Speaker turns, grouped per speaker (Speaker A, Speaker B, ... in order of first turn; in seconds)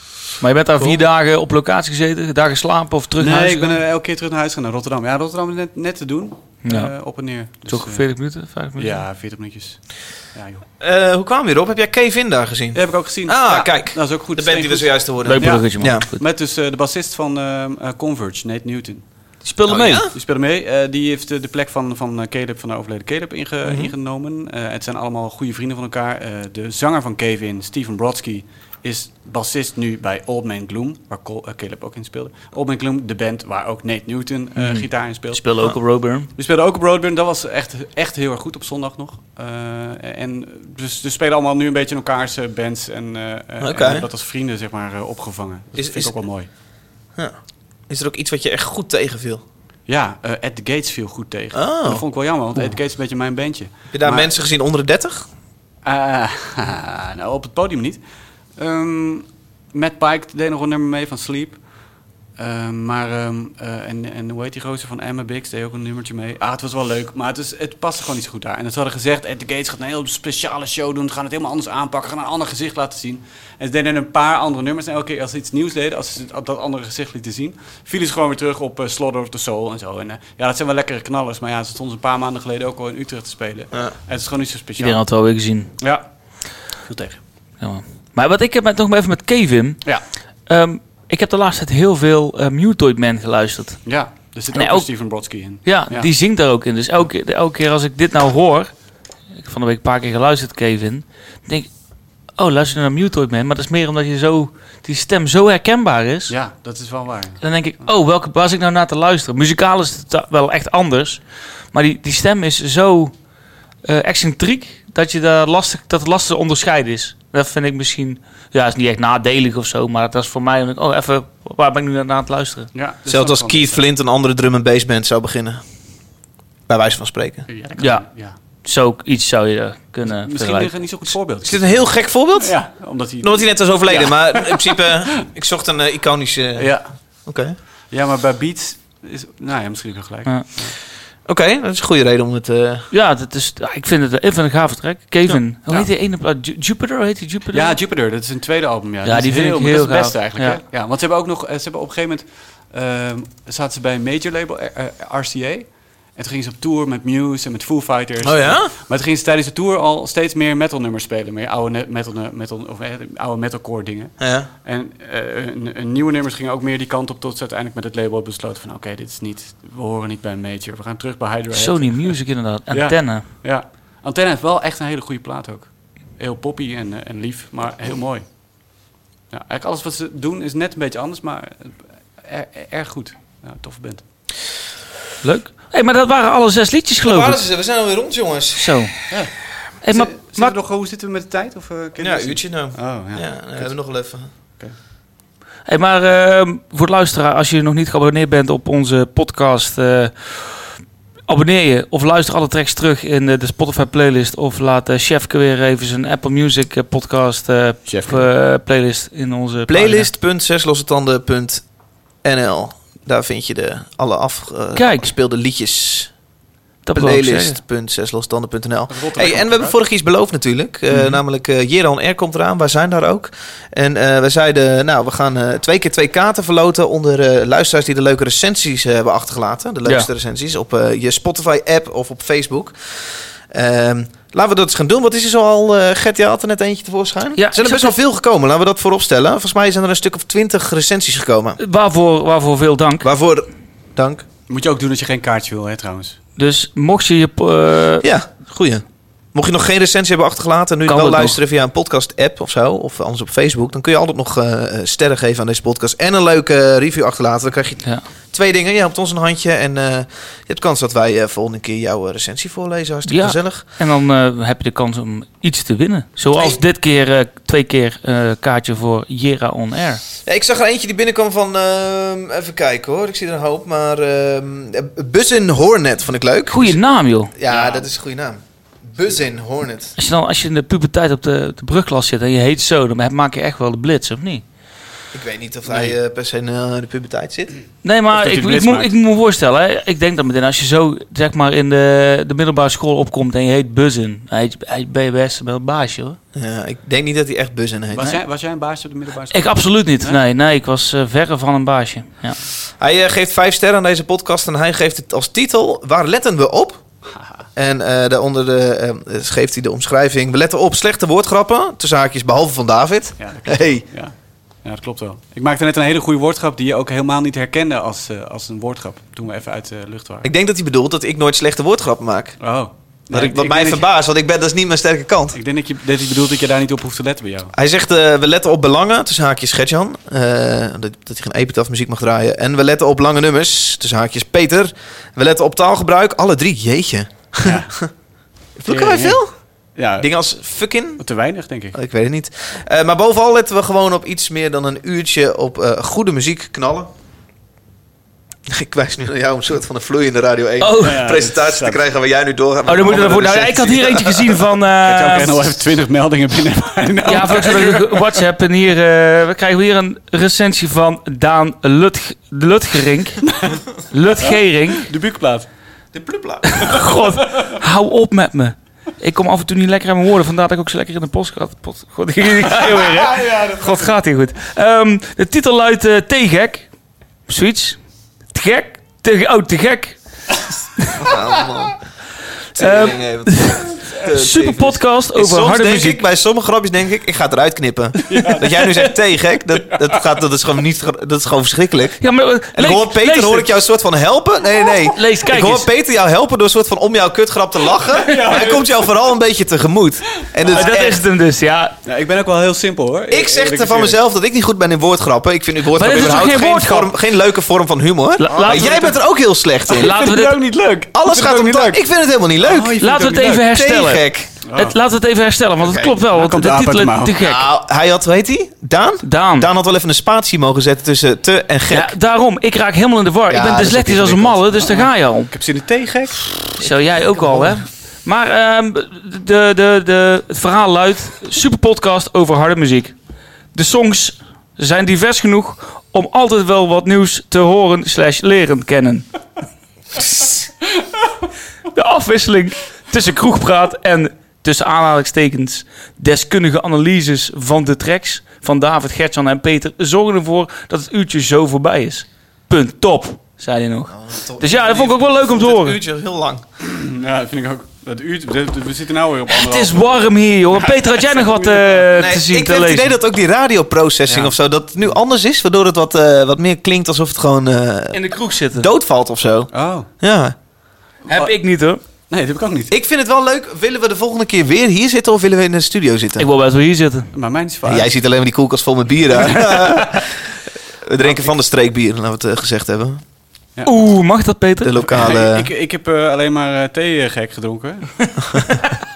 Speaker A: 0.4-3.8, 6.6-6.9, 7.7-9.0, 15.2-16.2, 19.4-20.0, 34.6-36.3, 84.8-85.7, 87.6-89.9, 90.5-93.8, 94.5-94.9, 95.6-98.7, 99.3-101.7, 102.3-106.3, 107.4-113.1, 113.8-122.7, 127.8-128.1, 128.6-130.7, 142.9-147.8, 149.0-150.6, 171.5-173.2, 185.2-187.4, 188.6-188.9, 189.8-190.6, 195.7-200.7, 201.3-210.1, 214.7-215.1, 216.8-217.6, 237.4-237.9, 241.6-243.1, 246.4-248.1, 250.9-251.4, 263.1-270.0, 276.5-277.3, 280.0-284.4, 287.8-296.2, 299.3-302.4, 350.6-351.0, 352.6-355.5, 357.1-363.3, 363.9-364.9, 366.5-376.7, 377.3-377.8, 378.3-380.0, 382.6-386.0, 392.0-393.5, 394.9-395.7, 400.5-401.7, 405.7-406.9, 408.2-408.9, 409.8-410.4, 412.8-414.0, 414.5-417.5, 419.0-419.5, 421.7-425.3, 426.6-432.9, 433.5-439.1, 441.7-455.8, 459.3-462.9, 467.9-468.7, 471.1-471.8, 476.2-477.1, 483.6-484.8
Speaker B: 3.2-8.1, 8.8-10.6, 12.7-19.3, 20.0-35.4, 36.3-46.5, 49.9-54.3, 55.8-58.0, 58.5-61.7, 62.4-85.0, 85.8-86.0, 86.9-87.2, 93.8-96.1, 106.3-107.4, 122.7-123.8, 127.5-128.3, 130.1-135.2, 136.6-136.9, 137.9-140.8, 147.5-184.0, 189.9-193.7, 207.9-208.3, 218.9-219.8, 244.5-246.2, 277.5-277.9, 285.7-285.9, 288.1-288.9, 297.9-300.2, 307.1-307.4, 313.2-320.3, 322.4-323.8, 325.3-327.5, 337.4-337.8, 338.7-339.2, 339.8-340.1, 341.0-341.8, 350.8-351.8, 354.8-358.1, 363.3-363.6, 364.2-365.5, 372.4-373.9, 388.1-389.0, 389.7-390.0, 397.9-398.6, 401.9-404.0, 408.3-409.0, 409.7-411.8, 412.4-413.4, 414.4-414.8, 416.1-417.1, 424.7-426.6, 456.6-460.0, 461.1-461.9, 464.1-464.3, 469.5-469.9, 472.1-472.7, 477.1-477.9, 479.3-479.8, 481.0-481.3, 484.9-488.4
Speaker C: 10.8-16.1, 19.7-20.1, 23.6-23.9, 43.6-44.1, 45.8-46.1, 47.9-49.4, 51.5-52.0, 53.9-55.2, 123.1-125.6, 126.7-127.5, 131.4-132.7, 133.2-137.5, 141.2-142.9, 158.2-158.7, 164.2-164.5, 187.0-188.8, 192.0-194.3, 209.7-211.6, 212.2-216.1, 216.9-232.7, 233.5-241.6, 243.0-244.2, 248.0-263.6, 270.2-276.8, 277.3-279.9, 285.1-287.5, 296.3-298.1, 302.8-306.8, 307.6-313.8, 320.2-322.4, 323.1-325.4, 327.5-337.9, 338.6-339.3, 340.0-341.0, 341.7-346.9, 348.5-354.5, 365.9-366.8, 381.0-381.8, 382.5-392.0, 392.5-401.0, 403.1-410.0, 410.9-412.8, 413.4-414.3, 415.6-416.0, 417.2-421.9, 423.3-424.6, 427.1-427.6, 453.9-456.4, 462.0-470.3, 472.7-476.3, 477.6-483.0, 484.6-485.5